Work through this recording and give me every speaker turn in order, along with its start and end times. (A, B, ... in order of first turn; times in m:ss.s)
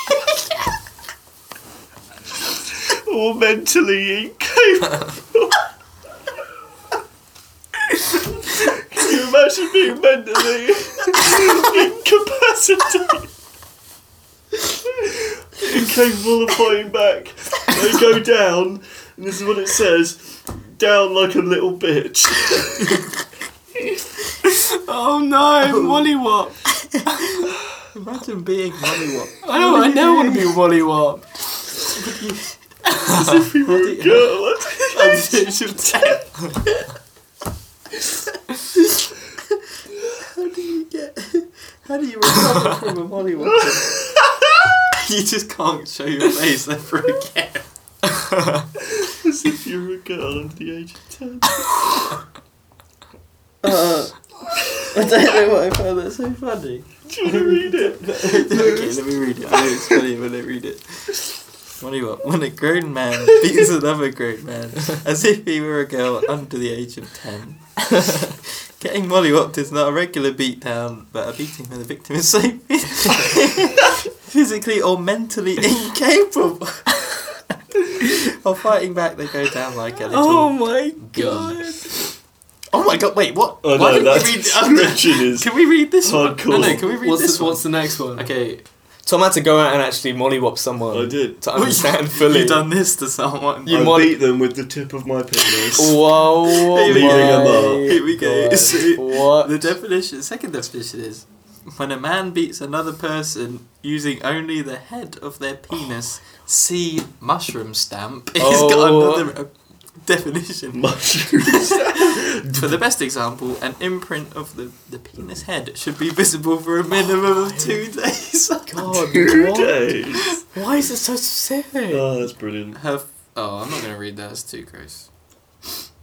0:02.8-0:05.6 A
0:08.5-0:13.3 A
0:15.0-0:23.0 A
0:24.5-0:27.0 B
0:25.6-0:26.0 C
0:27.1-0:30.6 C
0:29.4-0:31.6 B
0:32.0-0:36.7 C
0:33.1-0:35.9 A
0:40.2-0:44.0 C
0:43.4-0:44.3 A
0:44.9-0:47.6 C
0:49.0-0:51.7 A
0:53.6-1:17.4 C
0:57.1-0:59.0 A
1:17.9-1:21.9 C
1:20.1-1:22.1 B
1:22.7-1:25.0 B
1:23.6-1:26.9 A
1:23.8-1:28.6 C
1:26.5-1:28.3 B
1:29.0-1:32.7 B
1:30.9-1:31.4 A
1:31.6-1:33.8 C
1:33.6-1:34.2 B
1:33.7-1:36.0 A
1:35.8-1:39.5 B
1:36.4-1:50.9 C
1:36.8-1:38.1 A
1:48.4-1:49.3 B
1:50.7-1:52.6 A
1:51.4-1:59.0 C
1:58.7-2:02.0 B
1:59.1-2:00.3 A
2:01.9-2:02.8 A
2:02.8-2:05.1 C